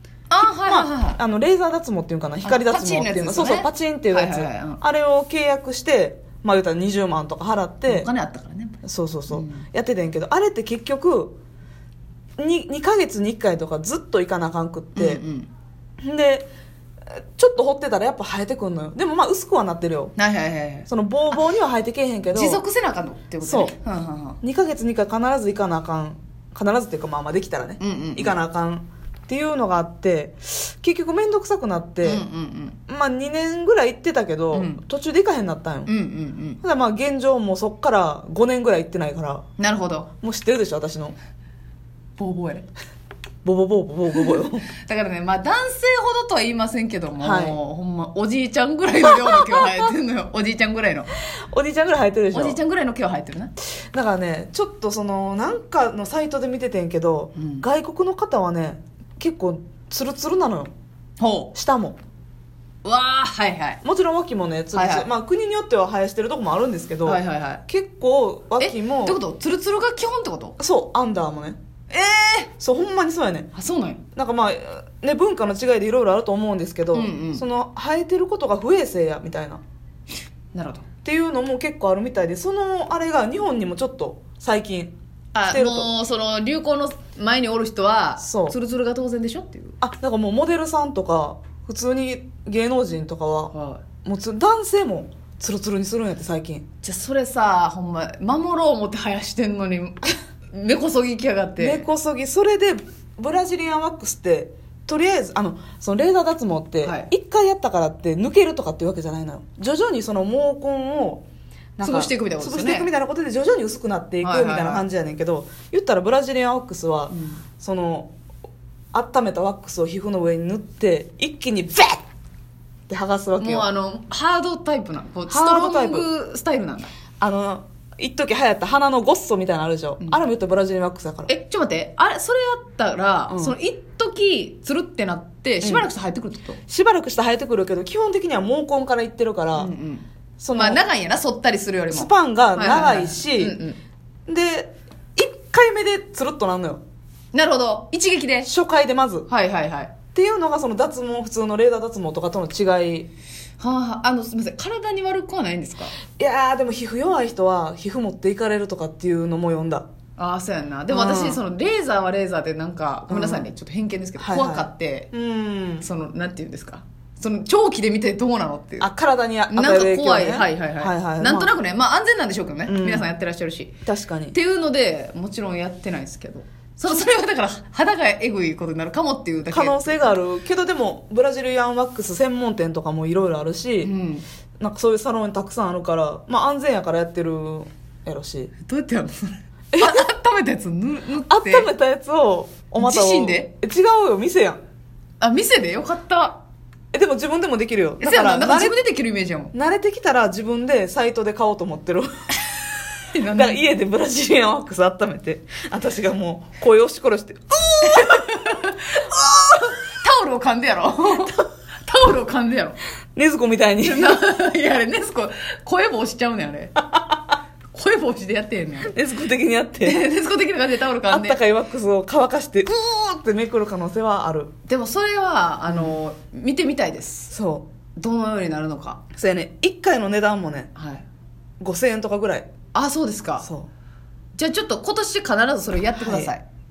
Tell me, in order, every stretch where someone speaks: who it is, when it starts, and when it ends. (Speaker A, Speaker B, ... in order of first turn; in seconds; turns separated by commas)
Speaker A: 0.3-1.2, Speaker B: 0.4-8.1, Speaker A: 2.4-4.8, Speaker A: 7.8-8.8, Speaker B: 8.8-11.3, Speaker A: 9.3-9.6, Speaker B: 12.4-15.2, Speaker A: 14.9-15.5, Speaker B: 16.0-16.5, Speaker B: 17.1-20.1, Speaker A: 20.2-20.9, Speaker B: 20.9-22.6, Speaker A: 22.3-24.4, Speaker B: 23.4-23.7, Speaker B: 24.4-32.2, Speaker A: 27.8-28.3, Speaker A: 32.0-32.8, Speaker B: 32.9-35.9, Speaker A: 34.5-34.8, Speaker A: 35.9-36.6, Speaker B: 36.6-39.4, Speaker A: 39.6-40.1, Speaker B: 40.2-41.2, Speaker A: 42.2-42.6, Speaker B: 43.4-44.7, Speaker A: 44.8-51.1, Speaker B: 47.2-47.6, Speaker B: 49.1-49.7, Speaker B: 51.5-52.6, Speaker A: 52.3-53.5, Speaker B: 53.9-60.7, Speaker A: 57.4-57.6, Speaker A: 61.2-61.5, Speaker B: 61.5-62.0, Speaker A: 62.8-63.8, Speaker B: 63.8-69.2, Speaker A: 64.7-65.1, Speaker A: 67.0-67.6, Speaker A: 68.6-70.5, Speaker B: 70.6-71.6, Speaker A: 71.9-72.5, Speaker B: 72.6-73.5, Speaker A: 73.5-74.0, Speaker B: 74.1-79.6, Speaker A: 76.9-77.4, Speaker A: 80.5-80.8, Speaker B: 81.0-85.9, Speaker A: 85.3-89.8, Speaker B: 88.2-88.6, Speaker B: 89.8-93.5, Speaker A: 93.5-93.8, Speaker B: 94.0-96.6, Speaker A: 96.8-101.9, Speaker B: 101.6-111.2, Speaker A: 106.8-107.1, Speaker B: 111.8-118.1, Speaker A: 111.8-112.9, Speaker A: 114.2-114.8, Speaker A: 117.1-117.4, Speaker B: 118.9-122.0, Speaker B: 122.9-123.7, Speaker A: 123.4-126.9, Speaker B: 125.3-126.1, Speaker B: 127.2-131.3, Speaker A: 131.3-136.6, Speaker B: 133.3-133.6, Speaker B: 135.6-135.9, Speaker B: 136.7-139.7, Speaker A: 139.5-143.8, Speaker B: 140.4-140.8, Speaker B: 141.9-143.6, Speaker B: 144.3-146.8, Speaker A: 147.3-148.5, Speaker B: 148.4-149.3, Speaker A: 149.3-149.9, Speaker B: 150.1-153.1, Speaker A: 153.6-155.9, Speaker B: 156.1-159.9, Speaker A: 160.2-165.1, Speaker B: 160.9-161.4, Speaker B: 163.1-163.5, Speaker B: 164.2-165.9, Speaker A: 165.8-168.9, Speaker B: 168.8-171.5, Speaker A: 169.5-173.7, Speaker B: 172.7-173.1, Speaker B: 173.9-174.4, Speaker A: 174.3-180.1, Speaker B: 179.5-183.9, Speaker A: 183.8-184.2, Speaker B: 184.6-188.5, Speaker A: 188.6-191.7, Speaker B: 189.7-190.1, Speaker B: 191.3-194.6, Speaker A: 192.8-193.5, Speaker A: 195.2-196.4, Speaker B: 196.9-198.8, Speaker A: 198.0-199.5, Speaker B: 199.5-202.1, Speaker A: 203.1-203.6, Speaker B: 203.3-208.2, Speaker A: 207.8-212.8, Speaker B: 213.1-214.2, Speaker A: 213.8-216.8, Speaker A: 217.7-219.0, Speaker B: 218.8-220.1, Speaker A: 219.8-221.4, Speaker B: 221.1-224.5, Speaker A: 224.7-227.3, Speaker B: 225.7-226.0, Speaker B: 227.3-227.7, Speaker A: 228.0-229.0, Speaker B: 229.1-230.7, Speaker A: 230.8-231.0, Speaker B: 231.6-232.5, Speaker A: 232.7-233.5, Speaker B: 233.4-233.7, Speaker A: 234.4-236.4, Speaker B: 235.9-236.3